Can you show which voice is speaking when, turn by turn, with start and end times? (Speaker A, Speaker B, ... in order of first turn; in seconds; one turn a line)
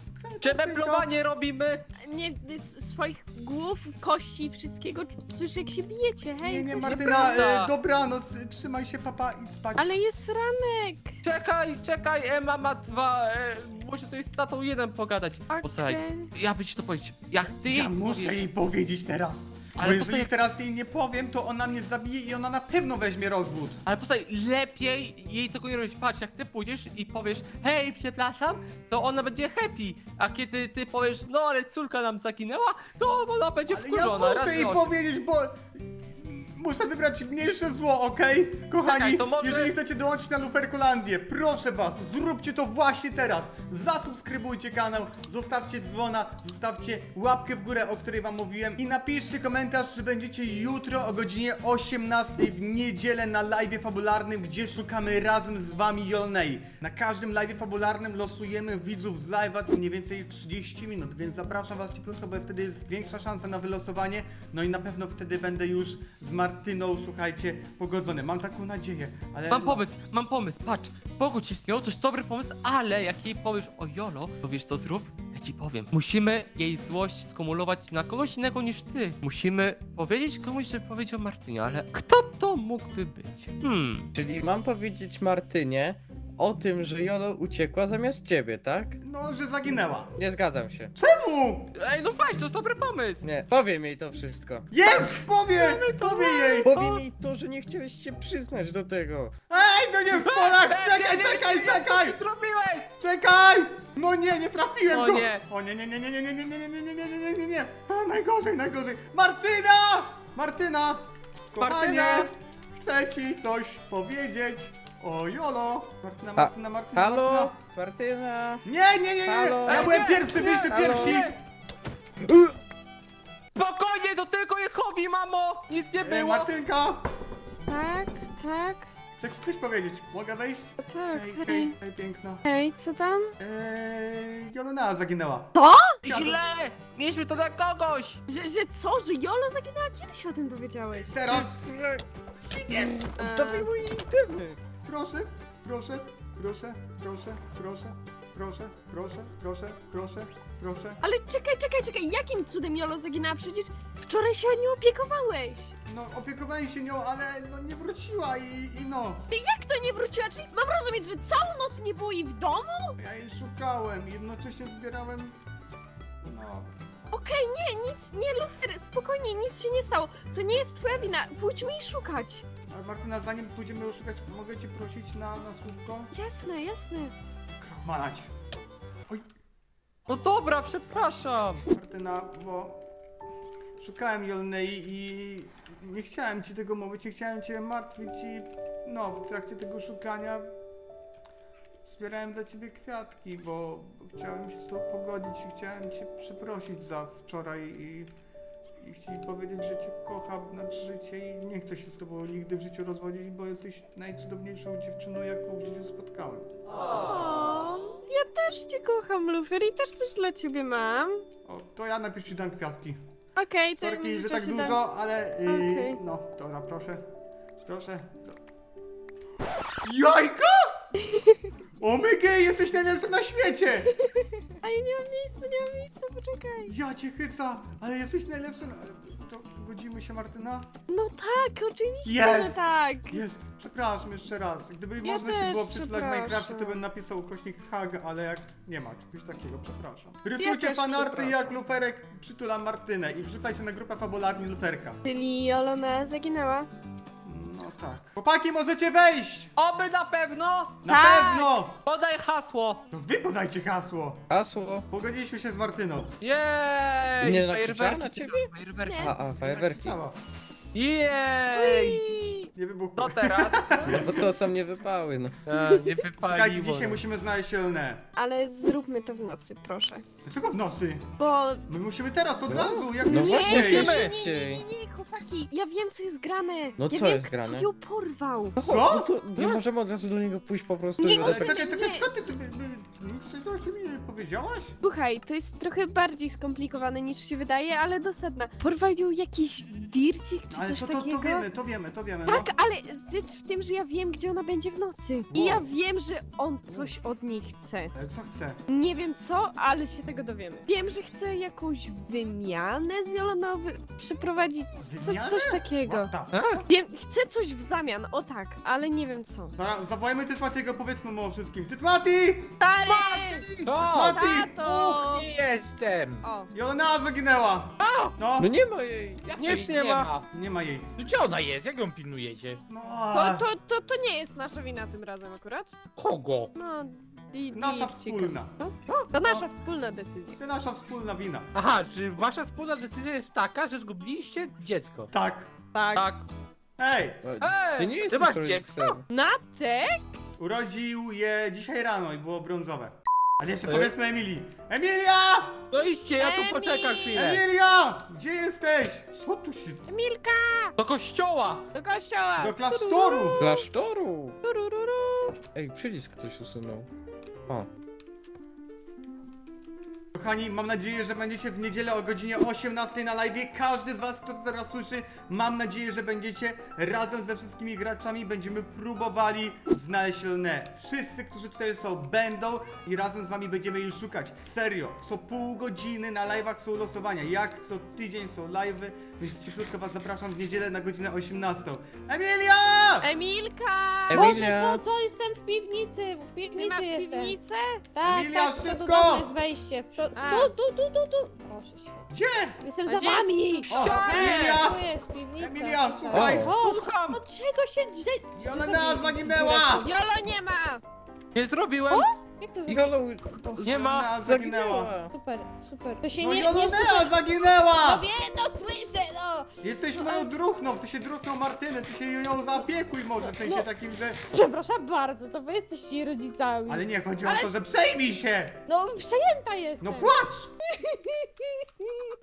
Speaker A: 0.2-1.1
Speaker B: 0.4-1.9
Speaker C: 2.0-7.2
Speaker A: 6.4-9.9
Speaker B: 6.8-7.7
Speaker C: 9.8-11.0
Speaker B: 11.2-18.4
Speaker C: 15.5-16.2
Speaker A: 17.6-23.8
Speaker B: 19.8-20.3
Speaker B: 23.9-34.9
Speaker A: 33.7-69.9
Speaker B: 38.8-39.7
Speaker B: 69.5-84.1
Speaker D: 84.1-89.0
Speaker A: 89.0-90.1
Speaker D: 90.2-90.9
Speaker A: 91.0-91.7
Speaker B: 91.8-93.3
Speaker D: 93.2-94.7
Speaker A: 94.7-96.7
Speaker C: 96.0-96.5
Speaker D: 96.6-99.3
Speaker A: 99.5-102.2
Speaker B: 100.2-102.9
Speaker A: 103.0-117.5
Speaker B: 104.9-105.4
Speaker B: 111.6-112.3
Speaker D: 116.4-118.6
Speaker A: 118.7-121.3
Speaker D: 119.2-121.3
Speaker B: 119.7-121.3
Speaker D: 122.2-122.5
Speaker B: 123.5-126.5
Speaker A: 126.0-127.0
Speaker C: 127.7-128.8
Speaker A: 129.2-132.4
Speaker C: 130.8-131.7
Speaker C: 132.5-133.3
Speaker A: 133.4-135.5
Speaker C: 135.6-135.9
Speaker A: 136.0-136.4
Speaker B: 136.0-138.2
Speaker C: 138.3-141.2
Speaker A: 141.0-141.6
Speaker D: 141.3-142.0
Speaker A: 142.5-143.1
Speaker D: 142.7-144.6
Speaker C: 143.2-143.7
Speaker A: 144.8-151.0
Speaker C: 151.0-155.7
Speaker A: 155.9-159.2
Speaker C: 159.3-162.9
Speaker A: 163.0-165.4
Speaker A: 166.2-166.7
Speaker C: 167.1-172.4
Speaker A: 172.7-176.1
Speaker C: 176.1-177.1
Speaker A: 177.6-178.3
Speaker B: 180.1-181.6
Speaker A: 181.7-182.8
Speaker A: 183.8-190.5
Speaker A: 191.9-198.1
Speaker A: 198.8-206.5
Speaker C: 207.1-211.1
Speaker A: 211.5-213.0
Speaker C: 213.4-214.7
Speaker A: 213.8-217.0
Speaker C: 215.5-215.9
Speaker A: 217.7-218.4
Speaker A: 219.8-220.8
Speaker A: 221.8-223.9
Speaker C: 224.6-226.6
Speaker A: 226.6-230.7
Speaker C: 230.9-233.2
Speaker A: 232.1-245.0
Speaker C: 235.0-236.7
Speaker C: 240.4-241.5
Speaker C: 245.1-246.7
Speaker A: 247.2-249.5
Speaker B: 249.6-250.9
Speaker A: 250.8-251.8
Speaker C: 250.9-251.5
Speaker B: 251.8-252.8
Speaker A: 252.9-254.3
Speaker D: 254.3-254.9
Speaker A: 254.9-256.1
Speaker B: 256.2-259.1
Speaker D: 257.2-258.4
Speaker D: 258.9-260.0
Speaker A: 259.4-260.2
Speaker B: 260.7-262.1
Speaker C: 261.7-262.0
Speaker A: 262.6-264.1
Speaker B: 263.0-264.0
Speaker D: 263.9-265.4
Speaker B: 265.5-267.0
Speaker A: 266.2-268.1
Speaker C: 268.2-270.0
Speaker A: 270.3-271.1
Speaker C: 271.2-271.6
Speaker A: 271.7-274.0
Speaker D: 272.5-274.6
Speaker C: 273.0-278.6
Speaker B: 273.4-274.1
Speaker D: 276.8-277.7
Speaker D: 278.6-281.6
Speaker A: 278.6-279.2
Speaker C: 281.0-282.3
Speaker A: 281.2-284.8
Speaker C: 284.8-291.4
Speaker A: 290.5-292.5
Speaker C: 292.3-297.9
Speaker A: 295.3-295.7
Speaker A: 297.9-298.6
Speaker C: 298.7-306.1
Speaker A: 304.8-306.6
Speaker B: 306.3-306.6
Speaker C: 306.7-309.5
Speaker A: 309.6-312.6
Speaker C: 312.6-313.5
Speaker B: 313.3-314.1
Speaker E: 313.6-316.2
Speaker A: 313.8-314.6
Speaker C: 314.1-315.3
Speaker A: 316.5-318.5
Speaker E: 317.8-318.1
Speaker D: 318.4-319.3
Speaker E: 319.3-320.2
Speaker C: 319.4-320.1
Speaker B: 319.4-320.1
Speaker A: 320.3-320.9
Speaker E: 321.0-322.6
Speaker A: 322.7-323.5
Speaker C: 323.1-325.7
Speaker E: 325.9-326.5
Speaker C: 326.6-330.4
Speaker A: 327.5-328.5
Speaker A: 330.4-331.5
Speaker E: 331.5-335.1
Speaker A: 335.1-335.5
Speaker C: 335.8-336.1
Speaker B: 335.9-336.2
Speaker A: 336.8-337.2
Speaker D: 337.2-339.0
Speaker B: 337.4-338.0
Speaker E: 338.1-339.0
Speaker C: 339.1-339.9
Speaker A: 340.4-345.6
Speaker E: 345.7-347.4
Speaker C: 346.1-347.2
Speaker A: 347.1-349.9
Speaker C: 349.9-350.6
Speaker B: 350.8-351.7
Speaker C: 351.8-353.6
Speaker A: 352.4-353.4
Speaker D: 353.4-354.4
Speaker C: 354.6-354.9
Speaker D: 355.5-356.9
Speaker A: 360.1-383.1
Speaker C: 383.0-384.3
Speaker D: 384.1-384.8
Speaker F: 384.1-387.4
Speaker C: 386.5-387.8
Speaker F: 387.9-392.0
Speaker A: 388.1-389.3
Speaker C: 390.2-390.5
Speaker A: 392.1-392.6
Speaker F: 392.6-399.9
Speaker C: 392.9-394.6
Speaker A: 393.7-394.8
Speaker B: 393.7-394.4
Speaker E: 393.8-394.3
Speaker A: 395.4-396.5
Speaker D: 396.1-396.6
Speaker B: 396.6-397.2
Speaker A: 398.4-399.9
Speaker C: 399.8-400.8
Speaker B: 401.3-402.1
Speaker F: 402.0-403.6
Speaker D: 402.7-405.1
Speaker B: 403.6-404.1
Speaker A: 403.6-404.9
Speaker F: 405.1-410.3
Speaker A: 406.2-408.1
Speaker A: 409.6-414.2
Speaker F: 413.3-413.6
Speaker F: 414.3-417.5
Speaker A: 416.7-418.6
Speaker F: 418.7-420.2
Speaker A: 419.8-420.5
Speaker F: 420.7-422.1